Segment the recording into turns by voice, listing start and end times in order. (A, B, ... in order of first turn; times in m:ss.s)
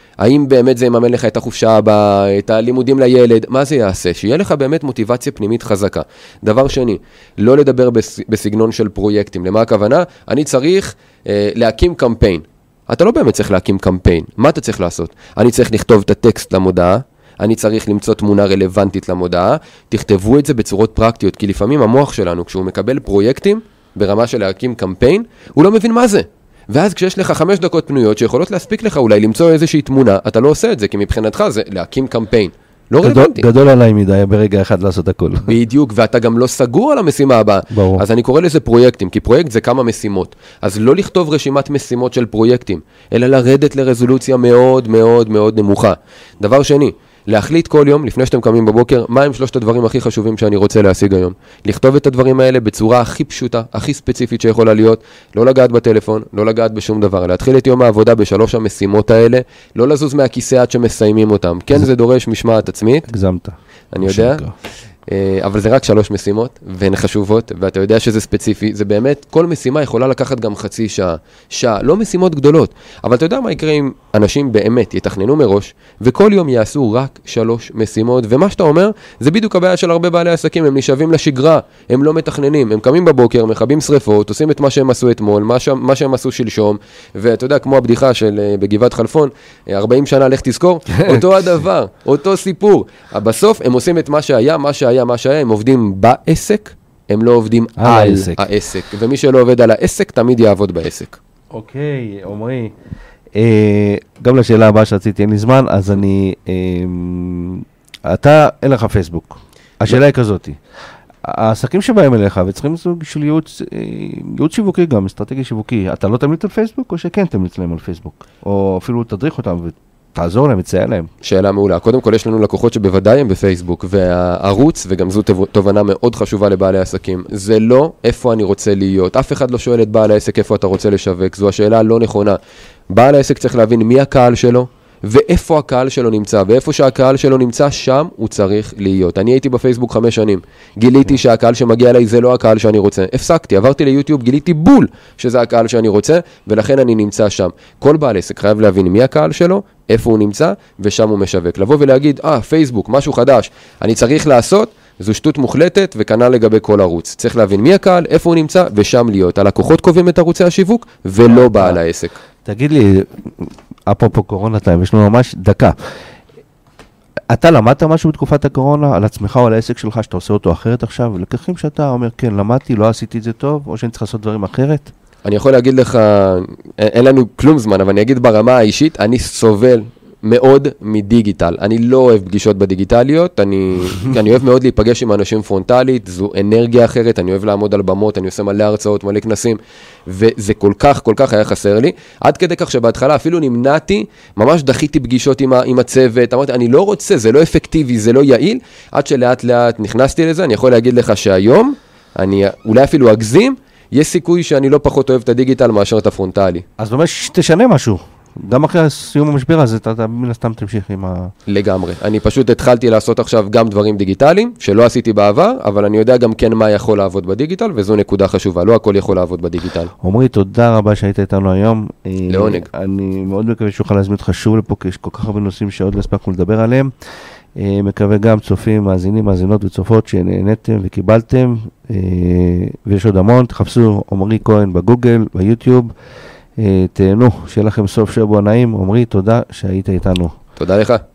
0:00.2-0:33.5 A
0:33.0-0:35.6 B
0:35.4-1:03.1 A
0:37.7-0:38.0 B
1:03.1-1:04.5 B
1:03.9-1:04.4 A
1:05.1-1:41.2 A
1:30.9-1:31.6 B
1:37.8-1:38.4 B
1:41.5-1:42.8 B
1:43.4-1:50.6 B
1:51.2-2:01.1 B
2:01.2-2:12.4 A
2:12.9-2:42.2 A
2:41.2-2:41.8 B
2:42.4-2:45.8 B
2:47.3-2:54.9 B
2:55.2-3:26.6 A
3:26.8-3:31.3 B
3:31.5-3:39.9 A
3:40.0-3:46.9 B
3:42.3-3:42.7 A
3:47.6-3:55.9 B
3:56.6-4:00.4 B
4:00.6-4:01.0 A